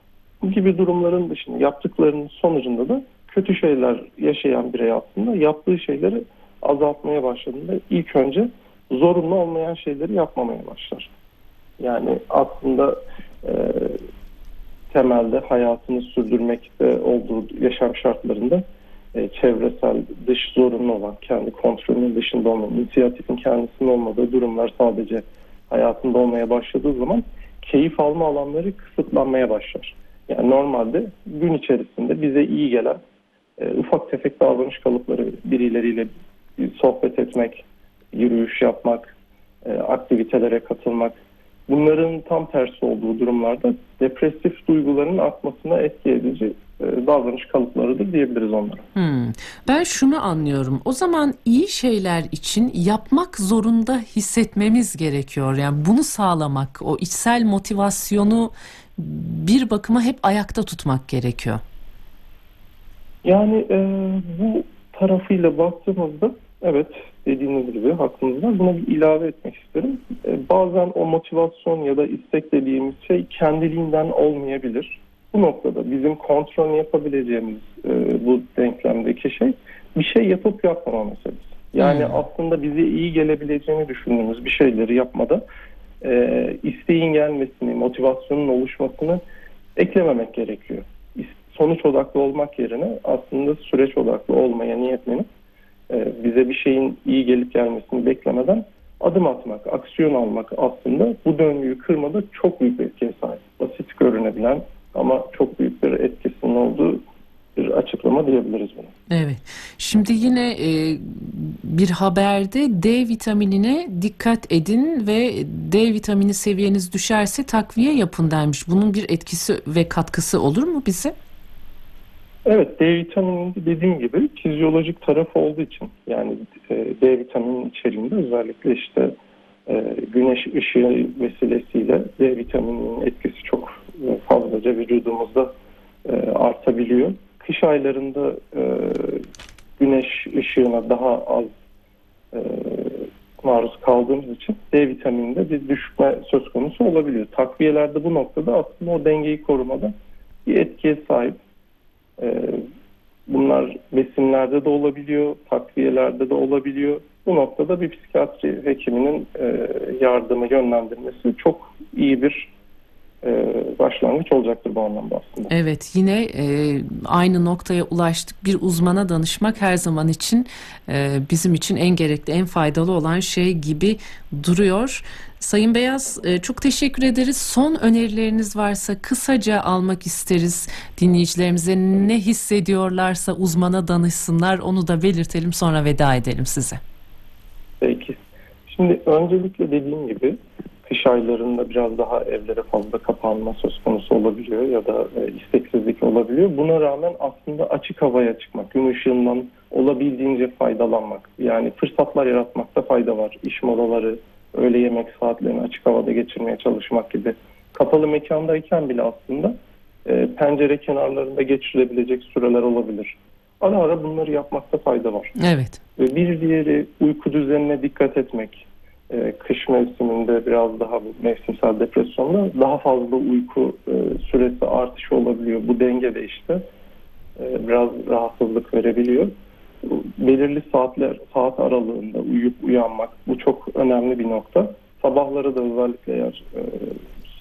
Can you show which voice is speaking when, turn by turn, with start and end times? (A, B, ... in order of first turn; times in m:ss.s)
0:00.4-0:11.1 A
0:11.8-0:14.0 A
0:14.9-0:18.6 A
0:19.1-0:33.0 A
0:33.6-0:48.9 A
0:48.9-1:01.6 B
1:03.2-1:25.4 A
1:21.8-1:22.2 B
1:26.0-1:29.2 A
1:29.8-1:35.2 A
1:35.9-1:47.0 A
1:47.6-1:48.9 A
1:49.1-2:01.1 B
2:02.4-2:09.1 A
2:09.6-2:15.5 A
2:16.0-2:19.2 A
2:19.8-2:21.5 A
2:22.3-2:29.9 A
2:30.4-2:31.4 A
2:32.2-2:32.6 A
2:33.3-2:42.5 A
2:43.2-2:45.5 A
2:45.5-3:06.8 B
3:07.8-3:35.3 A
3:35.4-3:35.8 B
3:36.0-3:46.6 A
3:47.4-3:49.3 A
3:49.8-3:57.0 A